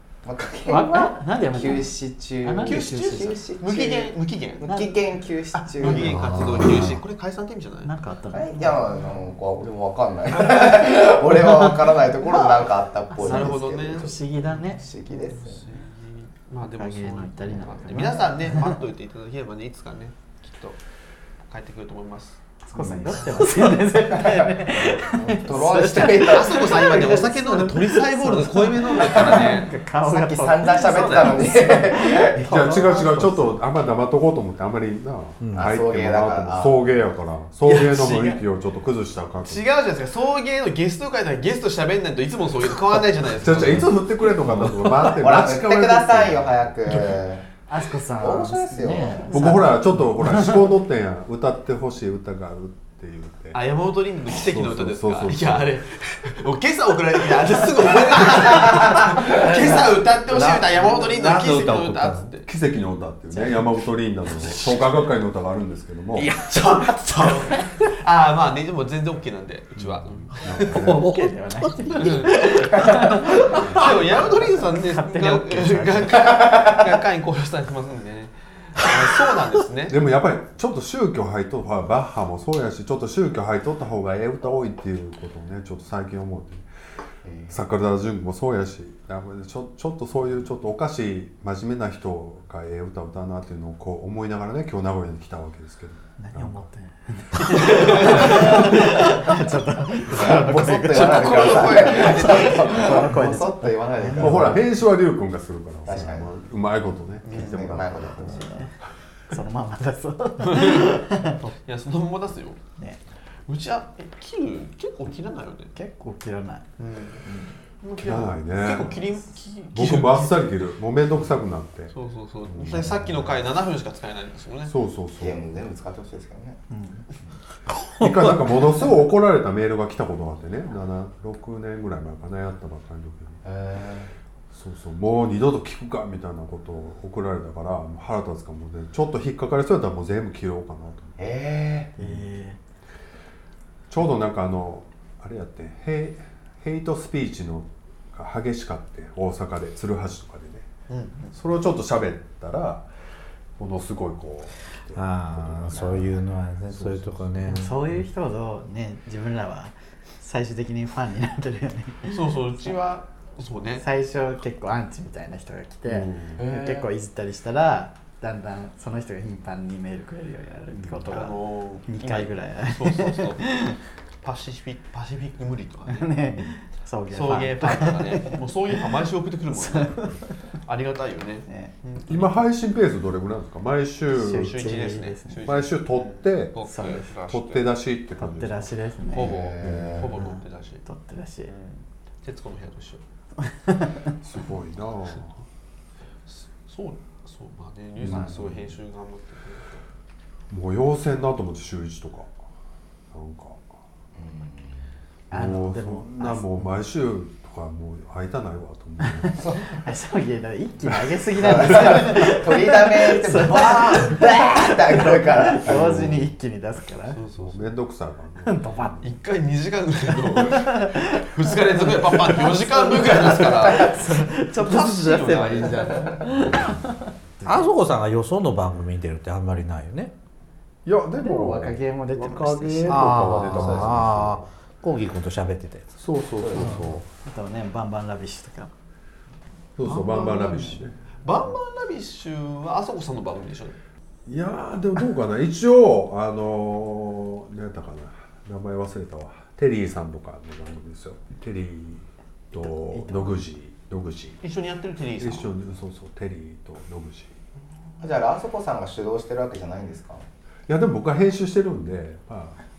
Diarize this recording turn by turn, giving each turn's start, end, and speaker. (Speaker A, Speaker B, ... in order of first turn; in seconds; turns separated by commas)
Speaker A: 0.2-6.4, Speaker B: 0.7-3.4, Speaker C: 2.6-4.7, Speaker B: 4.7-4.9, Speaker C: 5.6-7.9, Speaker D: 5.9-7.0, Speaker B: 7.8-8.9, Speaker A: 8.3-14.1, Speaker C: 12.2-14.2, Speaker B: 13.1-14.8, Speaker A: 14.7-15.6, Speaker C: 15.3-20.8, Speaker B: 16.7-18.8, Speaker C: 21.5-22.4, Speaker B: 22.7-33.6, Speaker E: 22.8-23.1, Speaker A: 22.8-27.2, Speaker C: 26.0-29.7, Speaker A: 29.1-32.4, Speaker C: 30.8-31.5, Speaker E: 32.4-39.6, Speaker D: 35.4-35.7, Speaker A: 35.5-36.8, Speaker C: 37.6-38.4, Speaker C: 39.4-44.7, Speaker E: 43.4-46.7, Speaker A: 44.9-47.4, Speaker B: 47.7-50.7, Speaker A: 48.2-49.5, Speaker E: 49.3-53.6, Speaker C: 53.5-62.5, Speaker E: 54.3-55.7, Speaker D: 59.2-61.7, Speaker E: 61.5-66.3, Speaker D: 66.2-67.8, Speaker C: 66.4-70.8, Speaker E: 69.8-71.1, Speaker B: 70.8-76.5, Speaker D: 70.8-72.5, Speaker C: 72.0-80.0, Speaker E: 73.5-73.9, Speaker D: 73.6-73.9, Speaker E: 79.9-86.7, Speaker A: 87.2-87.6, Speaker E: 87.5-96.6, Speaker B: 96.2-104.6, Speaker C: 97.6-98.8, Speaker A: 100.1-104.7, Speaker C: 100.8-103.1, Speaker E: 104.2-108.4, Speaker A: 105.8-106.3, Speaker C: 107.2-107.7, Speaker A: 107.3-108.5, Speaker B: 108.2-108.7, Speaker B: 109.3-111.5, Speaker C: 110.4-111.1, Speaker C: 111.6-112.6, Speaker C: 113.5-115.7, Speaker B: 115.7-116.7, Speaker C: 116.8-117.2, Speaker B: 117.2-117.5, Speaker C: 117.8-120.7, Speaker E: 118.0-119.0, Speaker E: 119.7-121.9, Speaker C: 121.9-124.7, Speaker E: 122.5-123.2, Speaker E: 124.6-125.4, Speaker A: 125.2-126.6, Speaker B: 126.7-127.0, Speaker E: 128.0-133.4, Speaker A: 133.4-134.1, Speaker E: 134.5-141.2, Speaker A: 141.2-141.9, Speaker B: 142.0-142.6, Speaker E: 142.0-142.2, Speaker E: 143.9-150.7, Speaker C: 150.9-151.1, Speaker E: 151.3-152.9, Speaker E: 153.6-157.5, Speaker D: 154.9-157.8, Speaker B: 157.5-162.3, Speaker C: 162.1-163.8, Speaker B: 163.8-173.8, Speaker E: 165.9-166.4, Speaker E: 170.7-171.1, Speaker C: 171.1-173.6, Speaker C: 174.2-176.1, Speaker B: 175.9-178.4, Speaker C: 177.1-180.1, Speaker B: 179.5-180.3, Speaker C: 180.6-182.4, Speaker B: 181.5-181.7, Speaker E: 182.1-184.7, Speaker B: 184.1-185.5, Speaker C: 184.3-187.7, Speaker E: 185.4-186.5, Speaker B: 186.6-187.1, Speaker E: 187.3-188.7, Speaker B: 188.2-189.3, Speaker A: 189.1-190.1, Speaker C: 189.1-190.8, Speaker E: 189.6-190.0, Speaker B: 190.2-191.5, Speaker C: 191.5-193.0, Speaker B: 193.4-194.2, Speaker E: 194.2-195.4, Speaker C: 196.3-199.8, Speaker E: 198.0-198.6, Speaker B: 198.1-198.3, Speaker E: 200.5-202.3, Speaker E: 203.1-203.6, Speaker A: 204.1-204.8, Speaker B: 205.3-206.7, Speaker E: 205.3-209.4, Speaker B: 209.0-217.2, Speaker A: 209.4-209.8, Speaker A: 211.3-215.8, Speaker E: 215.6-216.3, Speaker C: 217.1-217.7, Speaker E: 217.3-219.0, Speaker B: 218.4-219.0, Speaker C: 219.0-226.2, Speaker B: 220.1-227.7, Speaker D: 227.4-230.1, Speaker E: 230.8-234.4, Speaker B: 231.2-233.1, Speaker D: 232.8-235.9, Speaker A: 233.3-234.1, Speaker E: 236.0-237.1, Speaker A: 236.4-236.9, Speaker B: 236.5-238.7, Speaker E: 239.8-240.9, Speaker C: 239.8-243.8, Speaker E: 244.3-254.4, Speaker B: 252.6-253.4, Speaker C: 254.4-255.5, Speaker E: 255.2-257.3, Speaker A: 258.0-260.2, Speaker E: 260.7-262.6